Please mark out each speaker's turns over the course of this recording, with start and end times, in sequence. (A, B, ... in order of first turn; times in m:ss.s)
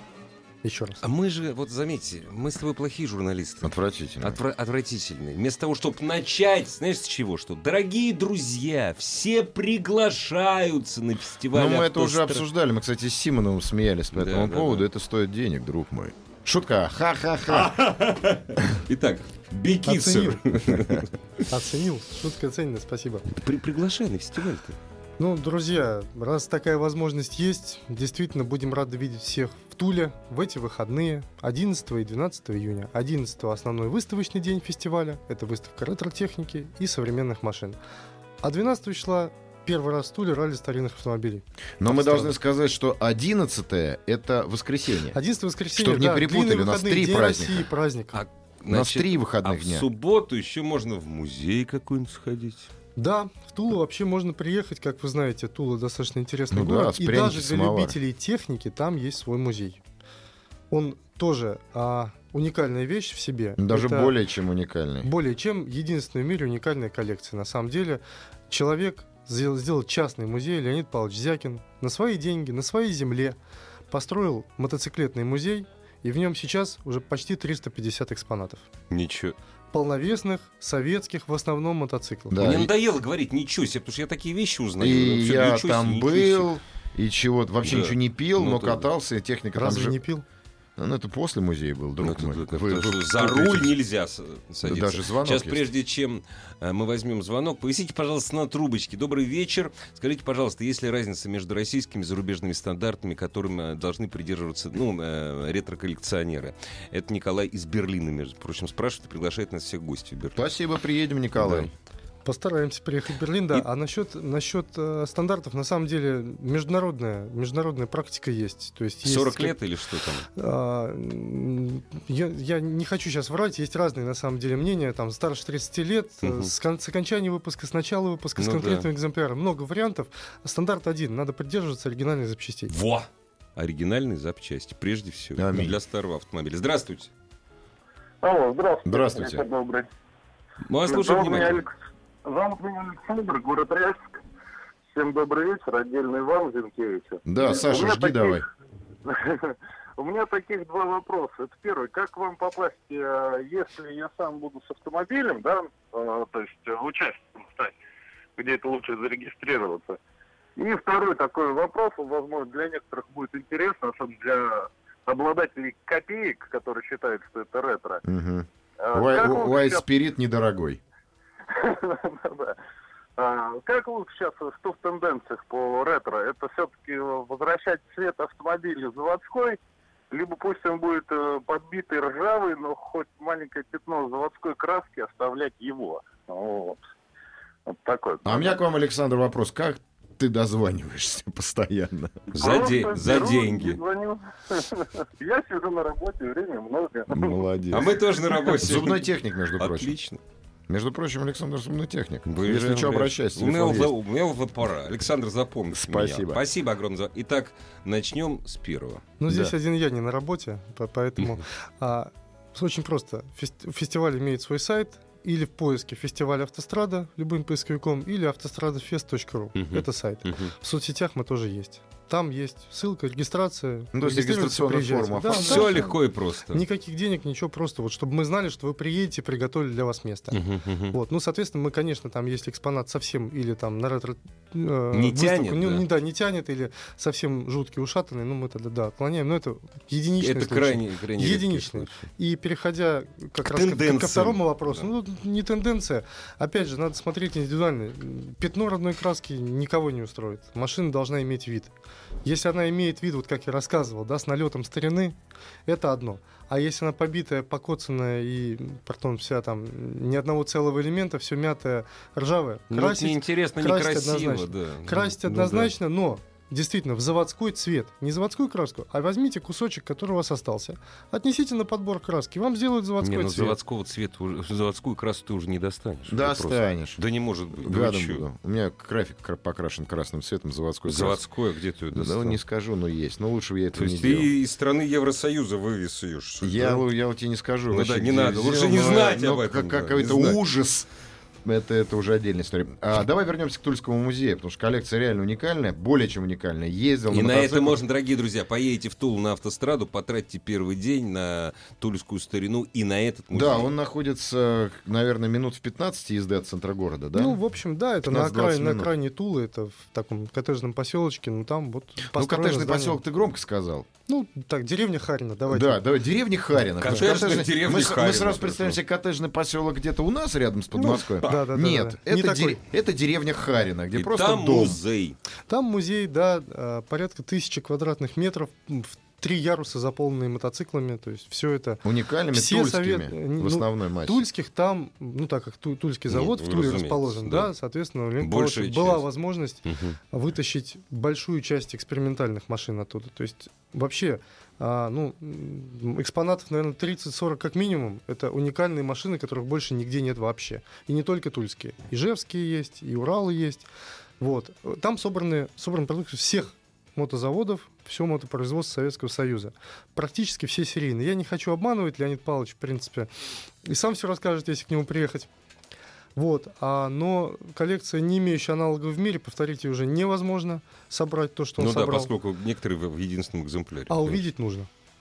0:00.6-0:01.0 A
0:01.0-0:12.5 B
0:03.6-0:04.4 C
0:11.5-0:17.8 C
0:14.1-0:14.8 B
0:17.5-0:21.4 B
0:19.8-0:20.4 A
0:21.5-0:23.3 A
0:23.3-0:24.8 B
0:25.2-0:37.8 A
0:38.4-0:42.3 A
0:41.8-0:45.2 C
0:45.1-0:48.2 A
0:45.7-0:47.6 C
0:48.1-0:52.7 B
0:48.7-0:49.9 C
0:53.0-0:59.8 A
0:56.5-0:58.0 C
1:00.7-1:04.1 A
1:03.6-1:05.1 C
1:05.0-1:13.4 A
1:13.9-1:18.6 A
1:18.9-1:19.3 B
1:19.7-1:22.4 A
1:22.3-1:22.7 C
1:22.4-1:26.5 B
1:24.8-1:30.0 C
1:27.6-1:28.9 B
1:29.5-1:30.2 A
1:30.8-1:33.7 C
1:32.0-1:50.4 B
1:34.6-1:35.6 C
1:50.4-1:51.7 C
1:51.4-1:51.7 B
1:52.2-1:59.6 A
1:59.0-2:00.3 B
2:00.4-2:12.7 A
2:06.2-2:06.5 B
2:08.4-2:08.9 B
2:12.7-2:17.1 B
2:15.4-2:15.8 C
2:18.2-2:19.9 D
2:18.8-2:19.4 C
2:20.6-2:21.6 B
2:20.8-2:24.2 D
2:24.9-2:28.5 D
2:27.2-2:28.4 C
2:29.0-2:37.7 D
2:38.4-2:40.0 D
2:40.6-2:48.0 D
2:48.0-2:50.8 C
2:48.8-2:49.8 D
2:51.5-2:52.6 D
2:53.2-2:59.6 D
3:00.1-3:06.8 D
3:07.6-3:08.6 D
3:08.2-3:12.2 C
3:12.3-3:13.8 B
3:12.4-3:17.4 D
3:17.1-3:18.0 C
3:17.7-3:20.2 B
3:18.6-3:19.9 C
3:20.7-3:23.9 C
3:22.2-3:29.0 B
3:25.7-3:26.4 C
3:29.2-3:46.0 A
3:29.3-3:29.5 C
3:39.6-3:40.5 B
3:43.9-3:45.9 C
3:45.3-3:46.6 B
3:46.5-3:50.4 A
3:50.3-3:51.0 B
3:50.9-4:11.7 A
3:54.9-3:55.8 B
4:00.2-4:02.0 B
4:03.4-4:04.9 B
4:12.2-4:33.6 A
4:22.7-4:25.7 B
4:33.0-4:38.2 B
4:36.1-4:37.0 C
4:37.6-4:41.2 C
4:40.9-4:42.4 B
4:41.9-4:44.3 C
4:43.8-4:46.8 B
4:46.4-4:50.9 C
4:47.7-4:50.4 B
4:51.4-4:57.8 C
4:57.1-5:03.7 B
5:03.3-5:07.4 C
5:07.1-5:13.0 A
5:08.0-5:08.9 C
5:12.0-5:13.9 C
5:14.1-5:15.8 A
5:15.5-5:24.8 C
5:16.8-5:18.8 B
5:20.7-5:22.6 A
5:23.9-5:25.2 B
5:25.5-5:53.6 A
5:31.8-5:34.2 C
5:36.1-5:37.5 B
5:38.2-5:39.0 B
5:39.6-5:40.0 B
5:54.2-6:03.1 A
6:03.6-6:05.3 A
6:06.2-6:12.1 A
6:11.6-6:14.2 B
6:13.9-6:14.7 A